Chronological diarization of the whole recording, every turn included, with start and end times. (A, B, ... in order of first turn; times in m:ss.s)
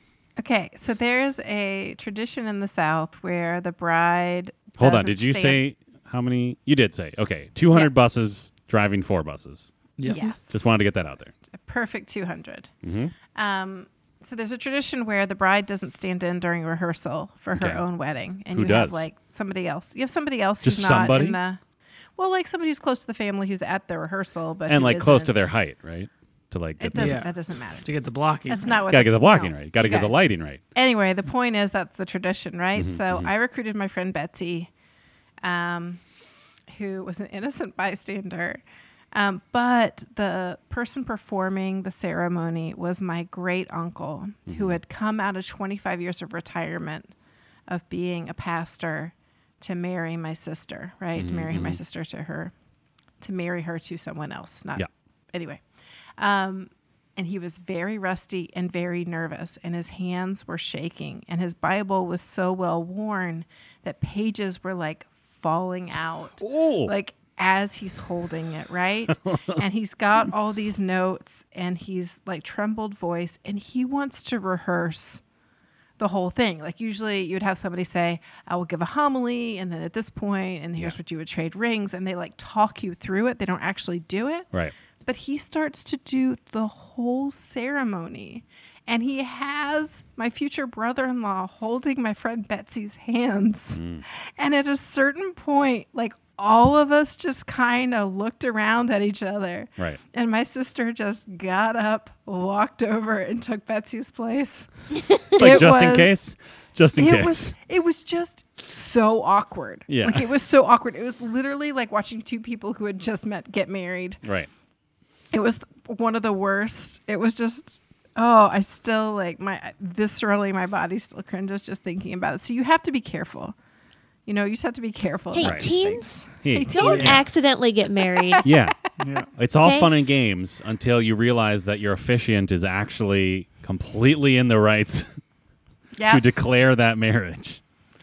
0:00.4-0:05.6 A
0:04.8-0:09.7 B
0:10.1-0:10.6 A
0:10.1-0:10.3 C
0:10.5-0:11.3 B
0:11.5-0:12.7 A
0:12.8-0:13.1 B
0:13.3-0:21.6 A
0:17.6-0:17.8 B
0:18.5-0:19.1 B
0:20.6-0:21.4 B
0:22.2-0:25.5 A
0:24.7-0:27.2 B
0:26.8-0:27.9 A
0:27.0-0:28.9 D
0:28.5-0:34.7 A
0:28.9-0:30.6 B
0:32.8-0:33.3 B
0:35.4-0:36.0 A
0:36.7-0:38.6 A
0:39.1-0:47.1 A
0:44.5-0:44.8 B
0:47.7-0:52.5 A
0:51.2-0:51.8 B
0:53.2-0:55.6 A
0:56.2-1:15.2 A
1:06.4-1:06.9 B
1:09.1-1:09.6 B
1:16.0-1:24.5 A
1:25.0-1:46.2 A
1:33.7-1:34.0 B
1:45.4-1:47.5 B
1:47.0-1:54.2 A
1:49.9-1:50.4 B
1:54.2-1:54.5 B
1:55.3-2:03.6 A
2:04.3-2:07.3 A
2:05.3-2:08.5 C
2:05.4-2:05.7 B
2:06.4-2:07.2 B
2:08.2-2:08.5 A
2:08.4-2:08.8 B
2:09.0-2:09.3 D
2:09.3-2:15.2 B
2:09.6-2:09.9 C
2:16.0-2:16.2 A
2:16.1-2:17.6 B